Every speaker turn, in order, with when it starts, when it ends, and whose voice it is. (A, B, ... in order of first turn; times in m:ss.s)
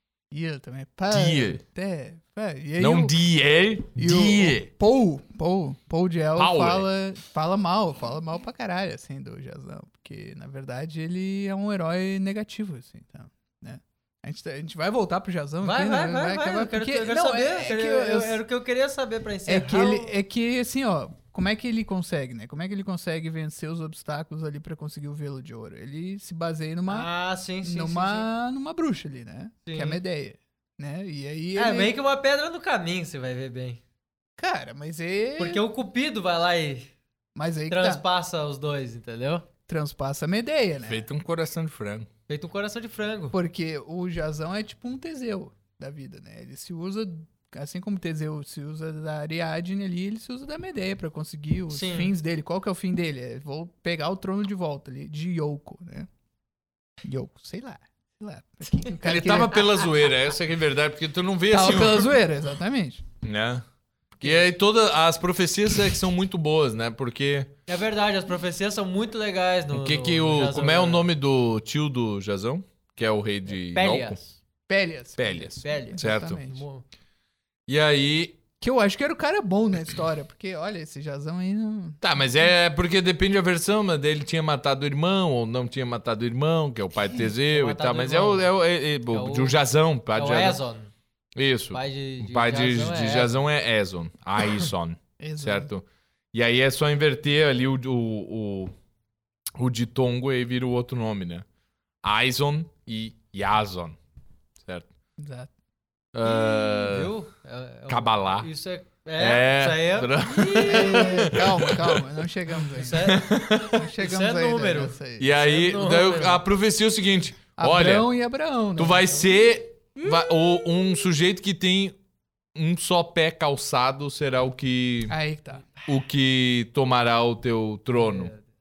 0:00.3-0:03.2 A
0:01.1-0:01.6 B
0:02.8-0:04.7 B
0:04.0-0:18.4 A
0:06.4-0:06.9 B
0:15.6-0:20.2 C
0:19.5-0:27.1 A
0:26.9-0:28.3 C
0:27.6-0:31.9 A
0:29.7-0:30.0 C
0:31.6-0:33.8 C
0:34.4-0:35.6 A
0:35.4-0:36.9 C
0:37.4-0:38.0 A
0:37.7-0:39.5 C
0:39.7-0:41.1 A
0:40.9-0:42.1 B
0:42.3-0:43.4 C
0:43.3-0:56.1 A
0:51.7-0:52.1 C
0:57.0-0:59.7 A
0:59.0-1:02.1 B
1:01.5-1:03.0 A
1:03.2-1:03.6 B
1:04.2-1:07.5 B
1:07.7-1:11.0 C
1:09.7-1:14.2 B
1:13.5-1:14.4 C
1:14.7-1:16.6 A
1:15.2-1:16.4 B
1:15.6-1:16.8 C
1:17.7-1:18.4 B
1:18.6-1:22.0 A
1:22.0-1:30.6 B
1:27.5-1:28.5 C
1:29.1-1:29.5 C
1:30.2-1:30.9 C
1:31.4-1:38.7 B
1:31.7-1:33.4 C
1:35.2-1:35.7 A
1:39.6-1:41.4 B
1:42.0-1:44.0 B
1:45.2-1:45.5 A
1:46.1-1:47.1 B
1:46.2-1:51.4 C
1:47.9-1:48.5 B
1:49.2-1:52.0 B
1:50.6-1:53.2 A
1:52.8-1:53.3 C
1:53.0-1:53.8 B
1:53.7-1:55.3 A
1:54.0-1:56.4 C
1:55.2-1:58.1 B
1:57.6-1:59.3 A
1:58.8-2:02.0 B
2:00.0-2:00.4 A
2:02.6-2:05.2 B
2:05.1-2:05.7 A
2:05.9-2:08.3 B
2:08.0-2:08.4 C